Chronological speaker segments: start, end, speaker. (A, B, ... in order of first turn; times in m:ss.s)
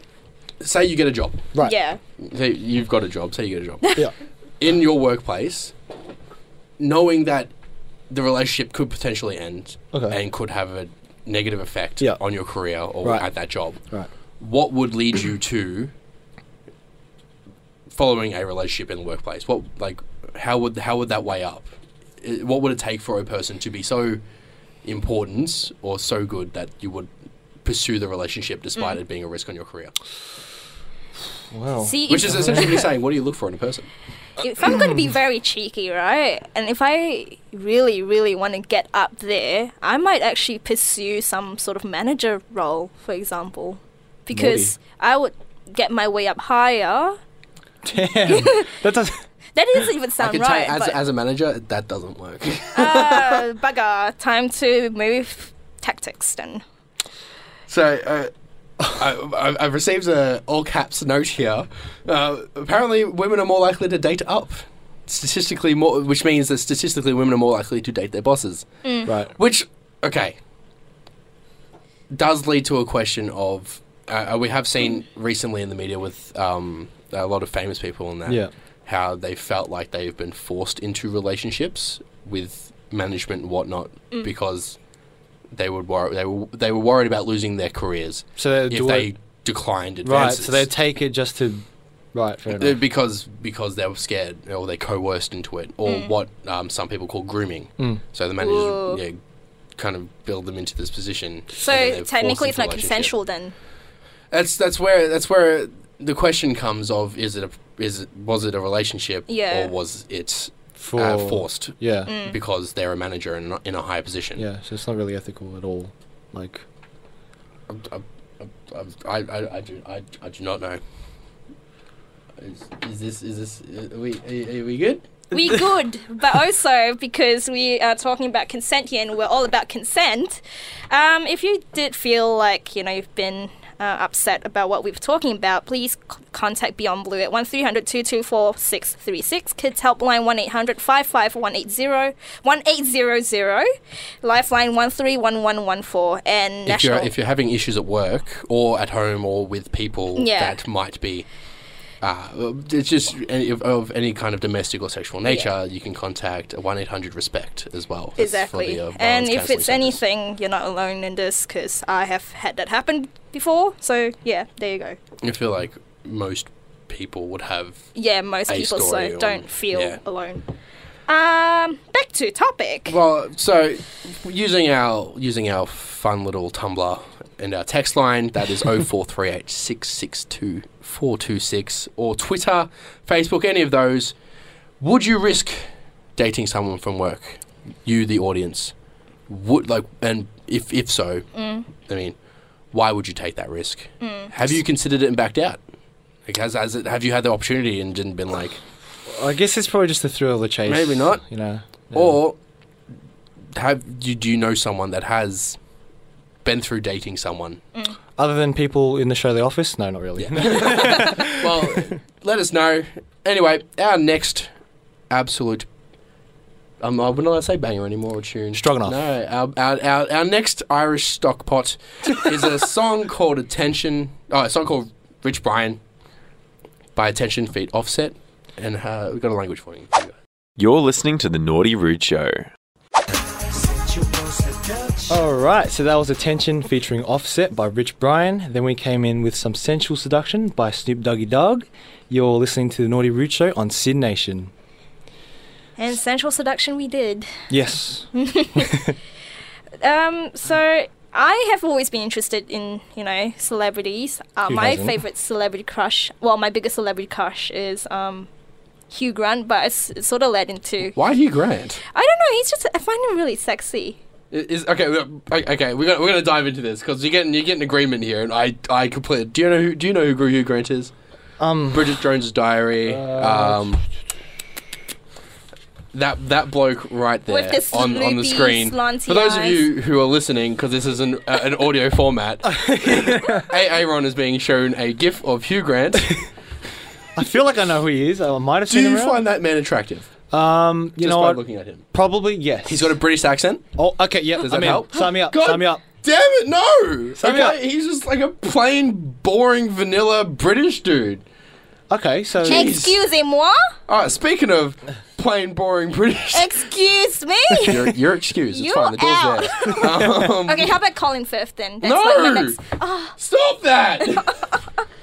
0:00.6-0:01.5 A
0:01.6-0:02.0 B
0:02.2-0:04.0 A
0:04.6-0:05.7 A
0:06.8-0:07.5 A
0:08.1-0:13.8 A
0:09.9-0:10.2 C
0:13.0-0:13.3 C
0:14.4-0:15.9 A
0:17.9-0:24.2 A
0:24.8-0:27.1 A
0:27.6-0:29.9 A
0:31.5-0:32.6 C
0:31.8-0:32.9 B
0:32.1-0:33.9 A
0:34.4-0:47.2 B
0:44.3-0:44.7 C
0:47.8-0:49.2 C
0:48.3-0:48.7 B
0:49.6-0:51.0 B
0:50.2-0:53.5 A
0:52.8-0:56.6 B
0:57.7-0:58.3 A
0:58.9-1:08.7 A
1:08.8-1:09.1 B
1:09.1-1:09.3 C
1:09.3-1:10.4 A
1:12.1-1:24.8 A
1:25.5-1:30.7 A
1:28.4-1:29.1 C
1:30.0-1:32.8 C
1:32.5-1:39.2 A
1:35.9-1:36.1 B
1:38.4-1:39.0 B
1:39.8-1:43.1 A
1:41.6-1:43.5 B
1:44.3-1:54.4 A
1:49.3-1:49.7 B
1:50.8-1:52.1 C
1:52.1-1:52.4 B
1:54.4-1:56.6 C
1:57.7-2:00.8 A
2:02.4-2:05.1 A
2:05.3-2:23.7 B
2:24.2-2:27.1 B
2:26.7-2:31.3 A
2:30.2-2:30.6 B
2:32.0-2:40.0 A
2:35.2-2:35.5 B
2:38.2-2:45.0 B
2:45.2-2:47.9 A
2:48.0-2:50.5 B
2:48.5-2:50.0 A
2:51.1-2:53.0 B
2:52.9-3:04.2 A
3:04.8-3:08.7 A
3:09.3-3:11.3 A
3:11.4-3:11.7 B
3:11.8-3:12.2 A
3:12.7-3:15.6 A
3:14.0-3:14.3 B
3:16.3-3:18.6 A
3:19.1-3:22.2 C
3:20.7-3:21.2 A
3:21.9-3:22.4 A
3:23.5-3:25.6 A
3:26.4-3:27.6 A
3:28.2-3:31.7 C
3:30.2-3:34.5 A
3:35.1-3:35.7 A
3:36.8-3:45.8 A
3:38.6-3:39.1 C
3:47.0-3:50.2 A
3:50.6-3:52.5 D
3:55.1-4:04.5 C
4:05.8-4:07.3 B
4:07.5-4:08.8 C
4:08.1-4:08.9 B
4:09.8-4:18.3 B
4:14.5-4:15.0 C
4:18.9-4:21.0 B
4:20.9-4:21.8 A
4:21.9-4:24.0 B
4:24.3-4:30.9 A
4:31.4-4:32.0 C
4:31.7-4:33.8 A
4:32.9-4:33.8 C
4:35.9-4:46.2 A
4:37.3-4:39.7 B
4:42.4-4:43.5 C
4:47.2-4:49.2 C
4:48.7-4:50.1 A
4:50.3-4:51.4 C
4:51.0-4:51.8 A
4:51.9-4:53.0 C
4:52.7-4:53.6 A
4:53.8-4:55.8 C
4:54.4-5:01.2 A
4:57.2-4:57.6 C
5:01.9-5:02.7 C
5:02.4-5:03.0 A
5:02.4-5:03.7 B
5:03.9-5:06.6 A
5:06.3-5:07.9 B
5:07.6-5:10.8 A
5:08.5-5:13.2 B
5:11.8-5:12.6 A
5:13.2-5:14.4 A
5:14.0-5:14.6 B